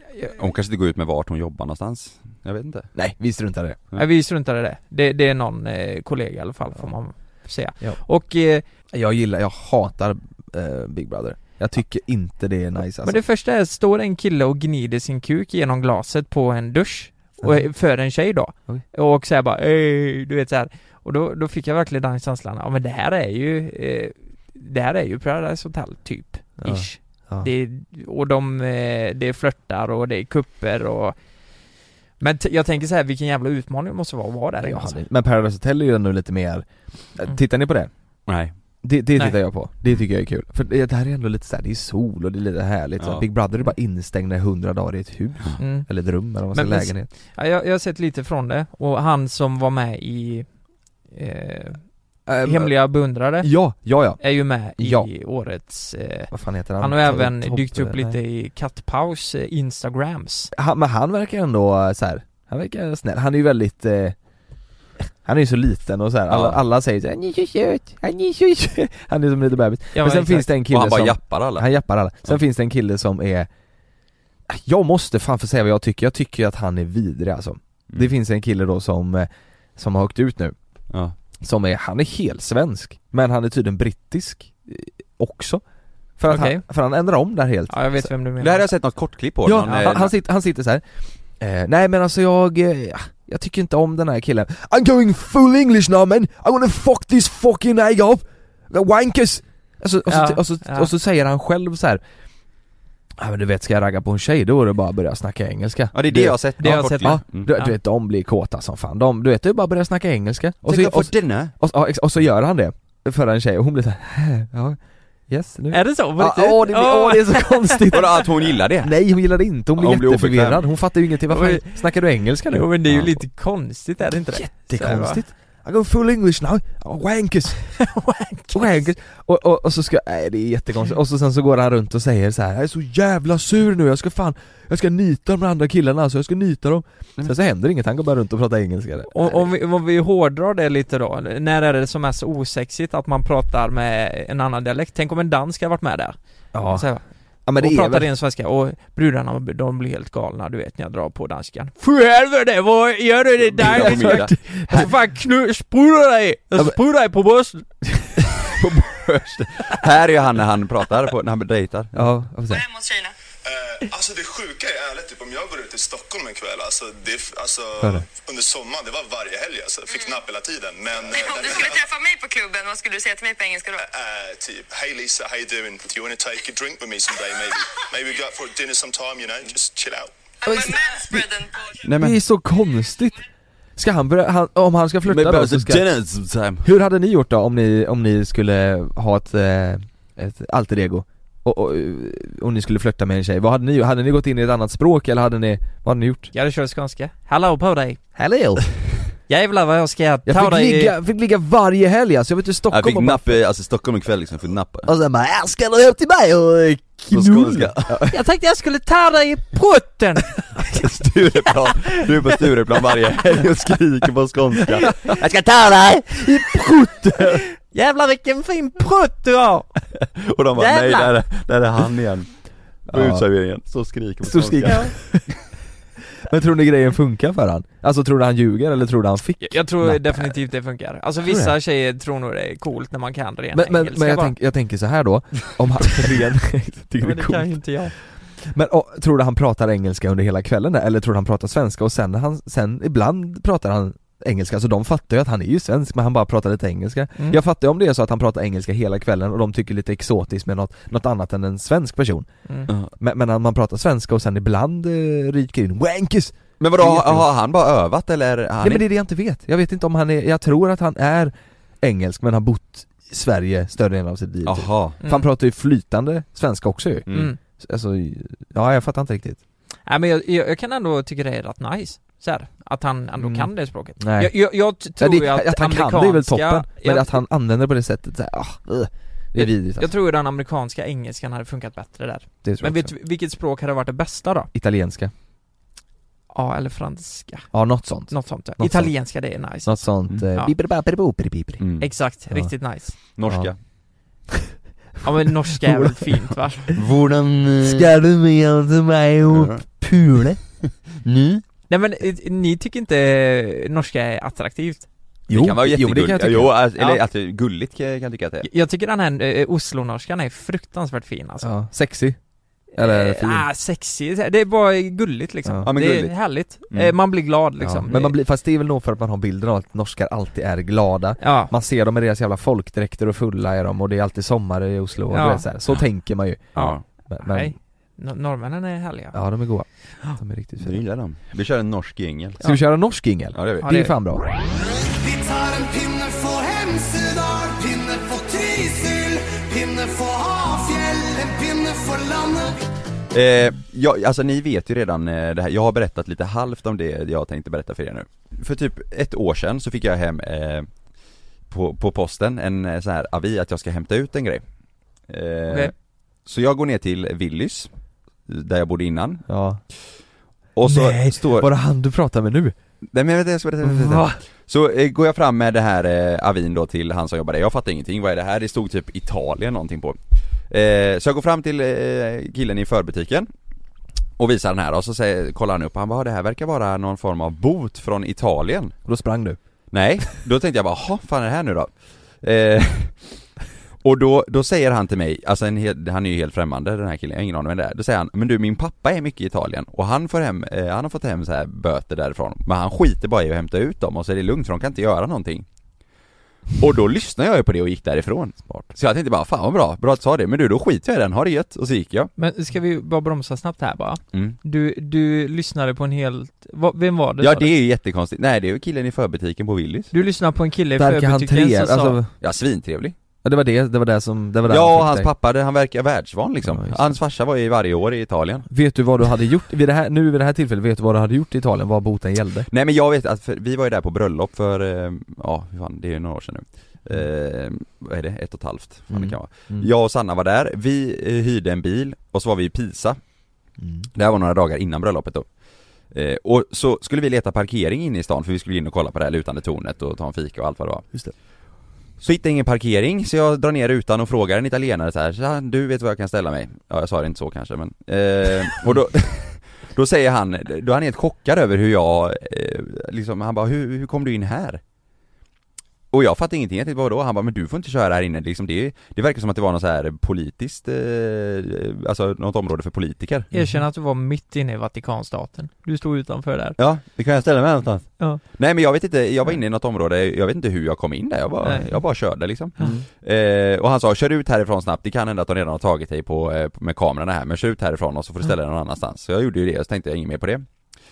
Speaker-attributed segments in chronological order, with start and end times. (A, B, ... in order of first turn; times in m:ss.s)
0:00.3-0:02.9 A
0:02.9-0:03.8 B
0:04.0-0:08.6 C
0:08.9-0:13.2 B
0:13.0-0:31.1 C
0:26.6-0:27.5 B
0:32.2-0:35.0 C
0:34.6-0:37.9 B
0:38.3-0:38.5 A
0:38.8-0:47.1 B
0:43.0-0:43.2 A
0:45.6-0:45.9 C
0:46.5-0:50.5 C
0:51.1-0:51.8 C
0:52.3-0:52.7 B
0:52.4-0:53.5 C
0:53.4-0:54.2 B
0:54.2-1:00.5 C
0:54.7-0:55.1 B
0:56.3-0:58.2 B
1:00.5-1:04.2 B
1:05.2-1:13.5 B
1:06.3-1:06.6 A
1:09.9-1:10.5 C
1:10.7-1:11.7 A
1:14.5-1:20.5 B
1:21.4-1:25.6 B
1:26.2-1:28.1 B
1:26.3-1:26.6 C
1:27.7-1:28.7 C
1:28.4-1:30.1 A
1:29.4-1:30.8 B
1:31.4-1:42.0 B
1:40.1-1:40.9 C
1:43.2-2:03.1 B
1:45.9-1:47.5 A
1:46.6-1:47.8 C
1:50.6-1:51.5 A
1:55.7-1:58.1 C
1:57.9-1:59.0 A
1:59.8-2:00.6 A
2:01.3-2:01.8 C
2:02.4-2:05.2 C
2:04.3-2:07.8 B
2:07.8-2:08.8 C
2:08.5-2:19.5 B
2:19.1-2:27.0 C
2:26.5-2:26.9 B
2:27.4-2:28.1 B
2:27.6-2:37.7 C
2:33.5-2:34.9 A
2:33.6-2:34.9 B
2:37.9-2:39.0 B
2:38.4-2:42.0 A
2:41.9-2:42.6 B
2:42.5-2:43.1 D
2:43.4-2:51.9 E
2:47.8-2:48.0 B
2:49.9-2:50.2 D
2:51.1-2:53.8 D
2:53.8-3:00.1 E
3:00.4-3:01.8 D
3:01.8-3:02.2 A
3:02.0-3:03.2 B
3:03.8-3:05.9 B
3:05.0-3:06.7 A
3:06.6-3:16.3 B
3:16.3-3:18.0 C
3:18.2-3:18.6 B
3:19.3-3:20.9 C
3:20.2-3:23.4 B
3:22.7-3:24.9 A
3:24.9-3:28.1 B
3:27.1-3:28.1 A
3:28.1-3:30.8 C
3:30.8-3:36.2 A
3:31.7-3:32.0 C
3:36.1-3:37.4 B
3:37.6-3:39.7 C
3:40.2-3:42.3 A
3:40.6-3:41.1 C
3:42.8-3:44.8 A
3:42.9-3:43.2 B
3:44.2-3:45.3 B
3:44.6-3:44.9 C
3:46.2-3:50.4 B
3:49.4-3:54.3 C
3:51.2-3:51.5 B
3:53.5-3:57.7 B
3:57.0-3:57.9 C
3:58.4-4:12.3 B
4:12.9-4:17.3 B
4:16.6-4:18.8 A
4:18.6-4:29.4 B
4:24.4-4:25.0 A
4:27.1-4:27.3 A
4:27.1-4:27.4 C
4:29.9-4:37.2 C
4:33.2-4:34.4 B
4:34.9-4:39.9 B
4:39.3-4:44.5 C
4:42.4-4:42.9 B
4:44.5-4:45.1 B
4:46.3-4:47.5 C
4:47.5-4:48.9 B
4:48.1-4:50.5 C
4:49.6-4:51.6 B
4:51.6-4:51.9 A
4:51.8-4:53.0 C
4:53.2-4:53.6 A
4:55.0-4:56.7 C
4:55.5-4:56.1 B
4:56.7-4:57.9 A
4:57.6-5:00.4 B
4:59.3-4:59.6 A
5:01.7-5:04.9 C
5:05.3-5:06.5 B
5:05.3-5:08.5 A
5:08.4-5:11.5 C
5:11.4-5:12.2 B
5:12.7-5:18.2 C
5:12.8-5:13.5 B
5:15.4-5:15.7 B
5:15.6-5:16.1 A
5:17.6-5:26.6 B
5:21.2-5:21.5 C
5:25.1-5:25.5 C
5:26.5-5:26.8 A
5:26.5-5:29.2 C
5:27.1-5:27.5 B
5:29.1-5:30.8 B
5:30.6-5:32.4 A
5:32.4-5:34.2 B
5:33.3-5:33.6 A
5:33.6-5:33.9 C
5:35.0-5:42.6 F
5:43.1-5:50.7 A
5:51.5-5:54.4 A
5:55.1-5:55.7 A
5:56.2-5:57.7 A
5:58.3-5:59.2 A
5:59.3-5:59.6 B
6:00.5-6:01.5 A
6:00.6-6:02.6 B
6:02.9-6:10.0 A
6:03.6-6:04.2 B
6:10.5-6:13.3 A
6:14.2-6:18.7 A
6:18.8-6:19.4 B
6:19.7-6:21.7 A
6:22.2-6:23.1 A
6:23.8-6:35.4 A
6:36.6-6:42.1 A
6:42.2-6:47.5 C
6:44.1-6:44.4 A
6:47.2-6:49.9 A
6:49.9-6:52.0 C
6:50.8-6:52.1 B
6:52.2-6:53.0 A
6:53.2-6:55.1 B
6:54.5-6:58.5 A
6:56.4-6:57.0 B
6:58.5-7:02.5 B
7:02.5-7:13.0 A
7:08.9-7:09.7 B
7:13.6-7:13.9 B
7:13.9-7:15.3 A
7:15.9-7:20.9 A
7:22.0-7:34.6 A
7:35.9-7:43.3 A
7:43.3-7:43.6 B
7:43.3-7:46.6 C
7:46.6-8:00.4 A
7:51.4-7:51.7 C